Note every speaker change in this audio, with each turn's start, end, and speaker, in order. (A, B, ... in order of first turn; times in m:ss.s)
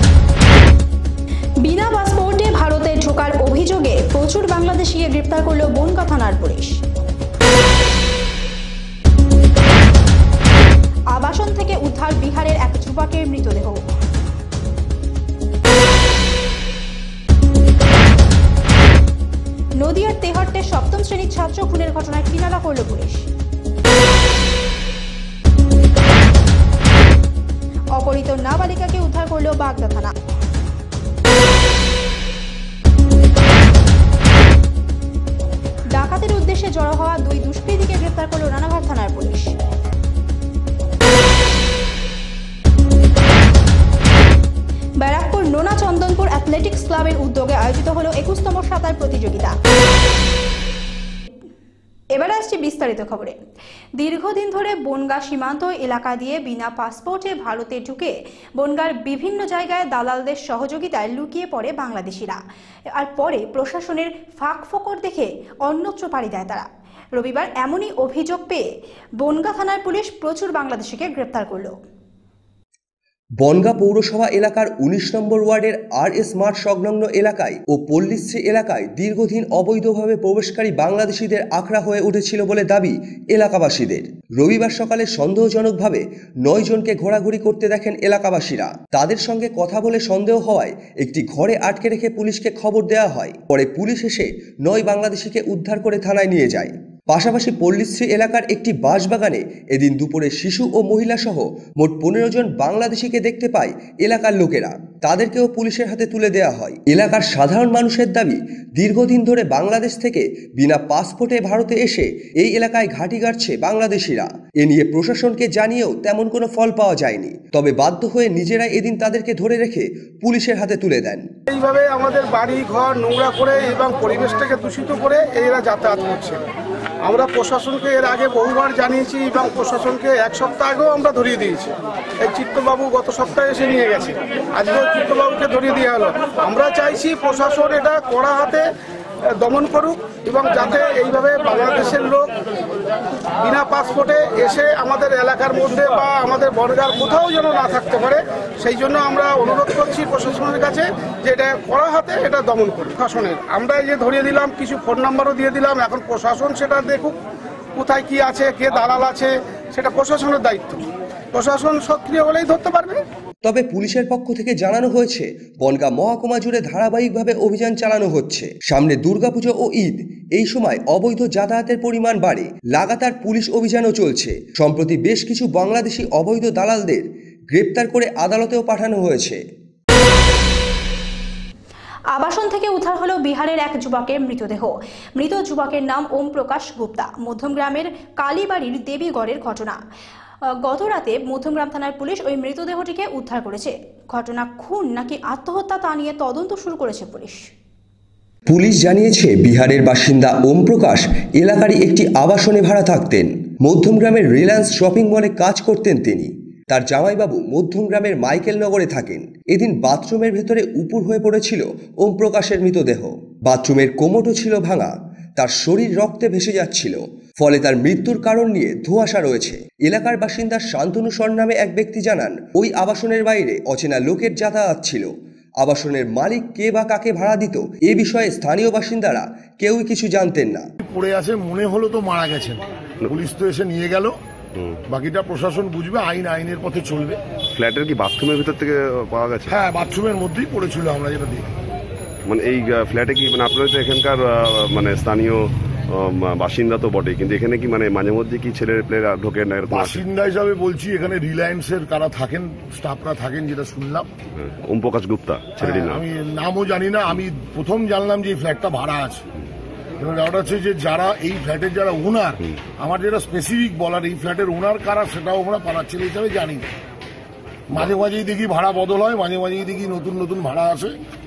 0:01.6-0:06.8 A
0:11.1-0:13.8 A
0:19.8-0:23.3 A
0:28.0-0:30.1 A
0:35.9-0:39.6 A
0:45.0-0:49.6 A
0:52.1-0:53.4 A
0:54.0-1:02.4 A
1:02.9-1:08.6 A
1:09.2-1:11.7 A
1:13.4-2:01.3 B
2:01.5-2:06.4 C
2:07.0-2:18.6 C
2:19.4-2:22.3 C
2:23.4-2:37.2 C
2:37.8-2:43.0 C
2:43.4-2:59.4 B
3:02.1-3:09.8 A
3:10.6-3:17.5 A
3:18.5-3:50.6 B
3:50.8-3:54.1 D
3:54.9-3:57.2 D
3:57.5-3:59.5 E
3:59.5-4:01.5 D
4:02.2-4:10.0 E
4:09.7-4:14.1 D
4:14.3-4:16.0 E
4:15.6-4:19.2 D
4:20.0-4:26.7 D
4:27.7-4:31.0 D